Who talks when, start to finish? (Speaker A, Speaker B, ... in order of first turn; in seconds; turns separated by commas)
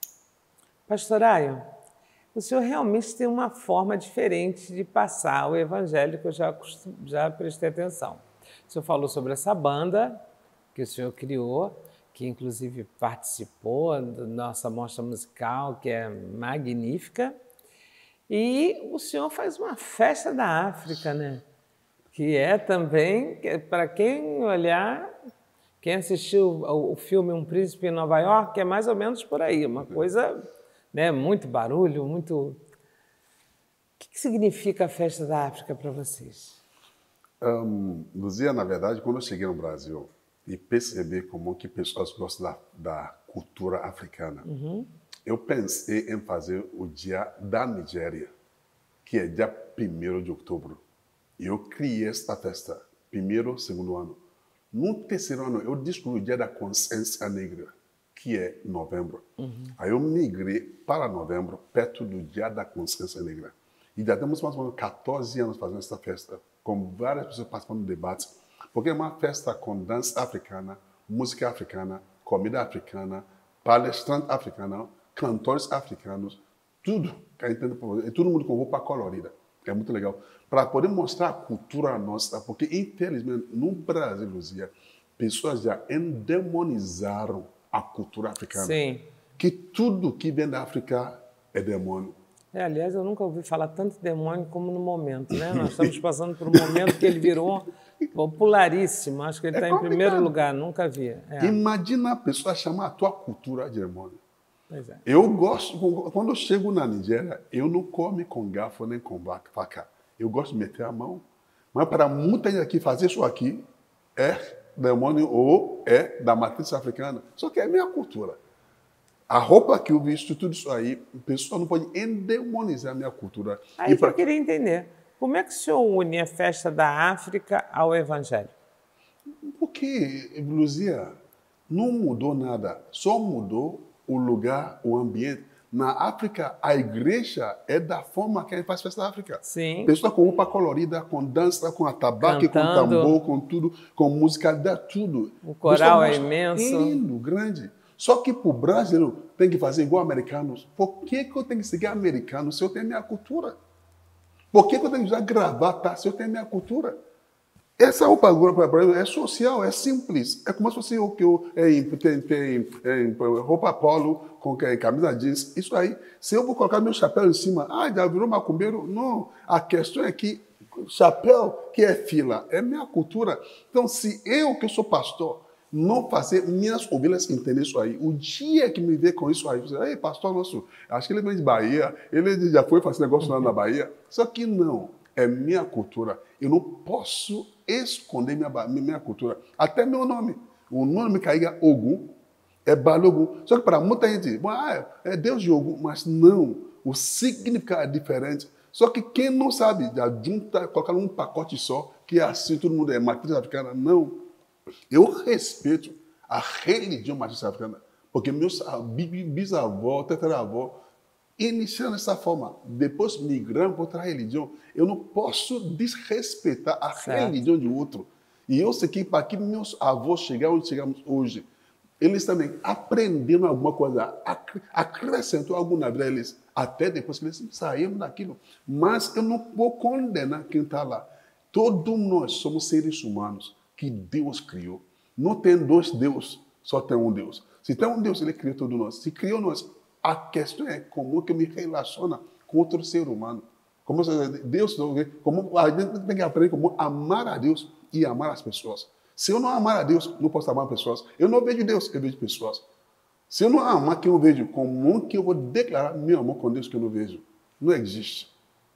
Speaker A: 0.9-1.6, Speaker A: 2.3-10.2, Speaker A: 10.7-17.3, Speaker A: 18.3-21.4, Speaker A: 22.1-25.1, Speaker A: 25.8-30.4, Speaker A: 30.9-32.6, Speaker A: 34.0-36.6, Speaker B: 37.4-44.4, Speaker A: 44.4-44.9, Speaker B: 45.2-48.3, Speaker B: 49.0-50.8, Speaker B: 51.4-54.2, Speaker B: 54.7-59.2, Speaker A: 59.4-59.8, Speaker B: 59.8-88.8, Speaker A: 88.5-89.0, Speaker B: 89.4-92.2, Speaker A: 92.5-101.6, Speaker B: 95.3-95.9, Speaker B: 96.5-97.3, Speaker B: 99.5-100.3, Speaker B: 101.4-104.2, Speaker A: 104.7-105.0, Speaker B: 105.0-118.4, Speaker B: 119.3-124.2, Speaker A: 123.8-128.5, Speaker B: 129.5-131.2, Speaker B: 131.7-153.6, Speaker A: 139.4-139.9, Speaker A: 142.2-143.2, Speaker A: 145.4-147.0, Speaker B: 154.5-156.9, Speaker B: 157.8-192.1, Speaker B: 192.7-204.2, Speaker B: 204.9-210.8, Speaker B: 211.4-221.4, Speaker A: 216.9-217.4, Speaker B: 222.0-252.6, Speaker B: 253.3-258.3